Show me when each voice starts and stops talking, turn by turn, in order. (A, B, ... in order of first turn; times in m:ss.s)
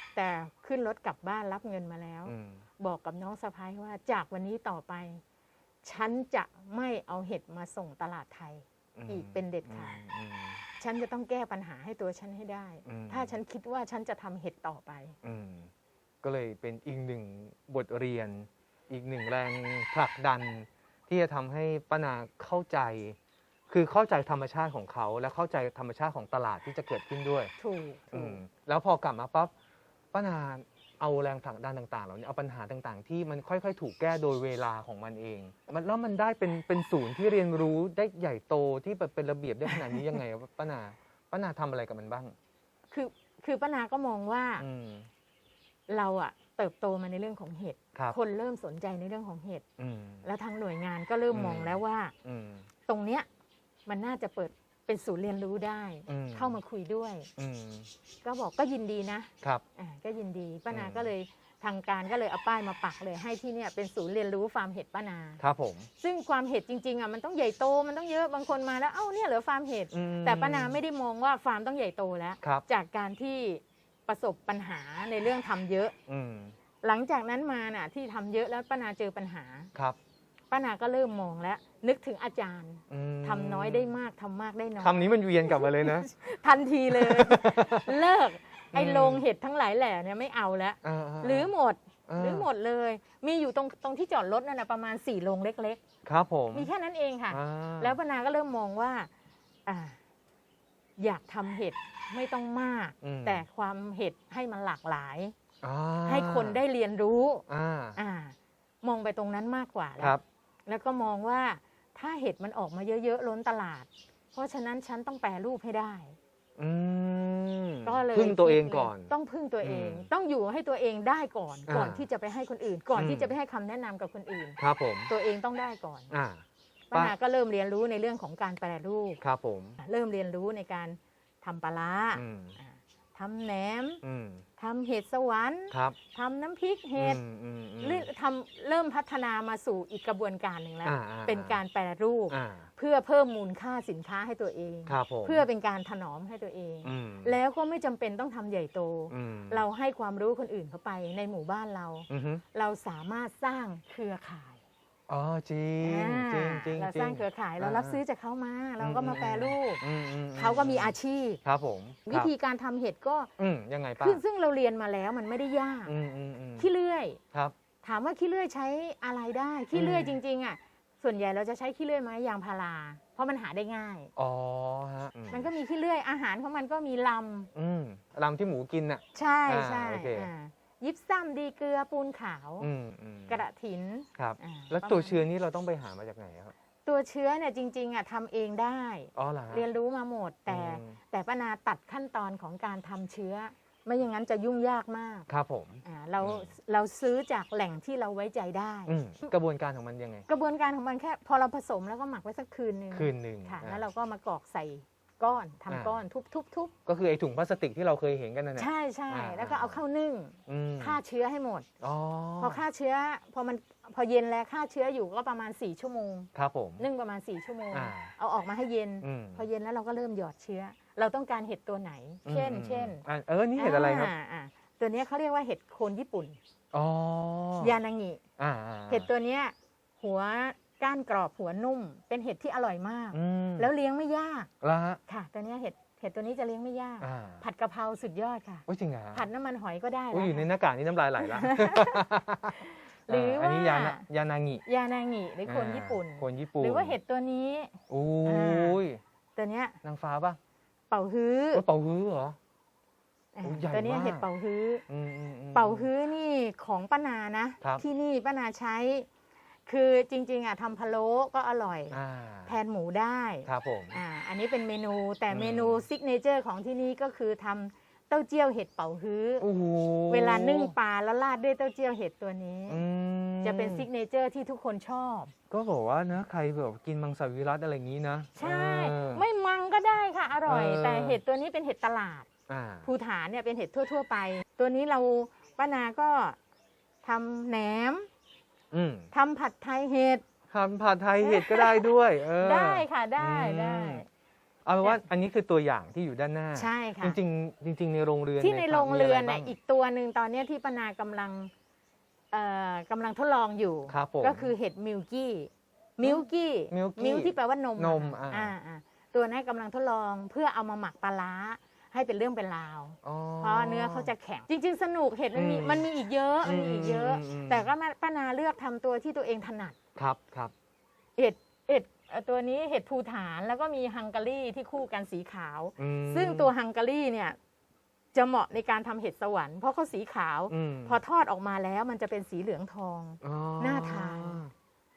0:00.1-0:05.2 A
0:02.2-0:02.6 B
0:05.8-0:10.0 A
0:09.0-0:10.6 B
0:10.8-0:15.1 A
0:12.8-0:13.3 B
0:15.2-0:15.7 B
0:16.2-0:23.2 B
0:23.7-0:27.5 B
0:27.6-0:28.4 A
0:28.1-0:29.5 B
0:30.1-0:42.3 B
0:42.9-0:44.6 A
0:44.6-0:45.1 B
0:45.9-0:49.6 A
0:49.8-0:50.2 B
0:50.2-0:52.1 A
0:51.3-0:52.6 B
0:52.9-0:53.3 A
0:53.9-0:57.3 A
0:56.1-0:56.6 B
0:57.4-0:57.9 B
0:58.2-1:05.4 A
1:00.7-1:01.1 B
1:05.4-1:05.9 B
1:06.0-1:15.9 A
1:09.9-1:10.8 B
1:16.1-1:16.5 B
1:16.8-1:19.7 A
1:20.5-1:35.8 A
1:22.9-1:23.9 B
1:24.8-1:26.1 B
1:26.9-1:28.0 B
1:28.7-1:29.2 B
1:30.8-1:31.5 B
1:32.1-1:32.5 B
1:36.0-1:36.7 B
1:36.5-1:39.1 A
1:37.3-1:38.0 B
1:39.6-1:40.0 A
1:41.0-1:45.3 A
1:43.0-1:43.4 B
1:45.6-1:46.6 B
1:46.1-1:47.4 A
1:47.5-1:48.0 B
1:48.0-1:56.2 A
1:56.6-1:59.1 B
1:57.8-2:06.1 A
1:59.6-2:00.1 B
2:01.7-2:02.0 B
2:02.9-2:03.3 B
2:04.6-2:05.1 B
2:06.1-2:07.1 B
2:06.9-2:09.2 A
2:09.2-2:09.8 B
2:09.8-2:14.0 A
2:12.1-2:12.6 B
2:14.0-2:14.4 B
2:14.6-2:17.2 A
2:15.7-2:16.0 B
2:17.0-2:18.1 B
2:17.8-2:34.6 A
2:20.8-2:21.6 B
2:22.3-2:22.7 B
2:24.9-2:25.4 B
2:26.8-2:27.3 B
2:29.1-2:29.6 B
2:32.1-2:32.4 B
2:35.1-2:38.0 B
2:35.8-2:39.8 A
2:38.8-2:42.3 B
2:40.3-2:41.4 A
2:42.0-2:43.3 A
2:43.4-2:44.2 B
2:44.0-2:45.9 A
2:45.8-2:46.7 B
2:46.6-2:47.2 A
2:47.8-2:54.1 A
2:49.7-2:50.2 B
2:54.2-2:55.5 B
2:55.3-2:57.5 A
2:57.5-3:00.3 B
2:59.1-3:02.7 A
3:02.6-3:03.4 B
3:03.3-3:05.2 A
3:04.2-3:06.5 B
3:06.8-3:15.3 A
3:09.1-3:09.6 B
3:10.5-3:11.0 B
3:15.3-3:16.5 B
3:15.8-3:18.9 A
3:18.9-3:20.3 B
3:20.3-3:26.7 A
3:22.9-3:23.8 B
3:25.7-3:26.0 B
3:26.8-3:29.8 B
3:28.6-3:31.7 A
3:30.5-3:31.0 B
3:31.8-3:32.6 B
3:32.4-3:43.0 A
3:36.3-3:36.8 B
3:37.7-3:38.1 B
3:39.0-3:39.4 B
3:42.2-3:44.1 B
3:43.6-3:46.4 A
3:46.7-3:47.7 B
3:47.6-3:48.2 A
3:48.4-3:49.1 B
3:48.9-3:54.5 A
3:53.1-3:53.7 B
3:54.6-3:55.0 B
3:55.1-4:00.4 A
3:57.0-3:57.4 B
3:58.7-3:59.2 B
4:00.1-4:04.6 B
4:01.2-4:02.0 A
4:02.5-4:04.0 A
4:04.6-4:08.8 A
4:05.4-4:07.0 B
4:07.9-4:09.0 B
4:09.4-4:09.8 A
4:09.8-4:10.4 B
4:10.9-4:11.6 A
4:11.5-4:12.4 B
4:13.3-4:14.8 A
4:13.4-4:14.2 B
4:14.9-4:15.9 B
4:15.5-4:19.1 A
4:19.7-4:29.5 A
4:21.9-4:22.5 B
4:23.4-4:24.0 B
4:25.3-4:25.8 B
4:29.4-4:30.7 B
4:30.1-4:32.8 A
4:32.7-4:33.8 B
4:33.4-4:35.3 A
4:35.5-4:39.2 B
4:38.4-4:42.3 A
4:40.5-4:41.2 B
4:42.5-4:42.9 B
4:42.8-4:46.4 A
4:47.0-4:48.1 A
4:48.7-4:49.1 B
4:49.1-4:50.2 A
4:50.5-4:54.0 B
4:51.2-4:54.0 A
4:54.6-4:59.5 B
4:56.5-4:57.2 A
4:58.4-5:01.5 A
5:02.3-5:19.8 A
5:03.9-5:04.5 B
5:06.0-5:08.5 B
5:13.0-5:14.1 B
5:15.3-5:15.8 B
5:16.4-5:17.7 B
5:20.0-5:20.5 B
5:21.2-5:27.4 A
5:25.8-5:26.5 B
5:28.1-5:34.4 A
5:30.5-5:31.0 B
5:33.2-5:34.5 B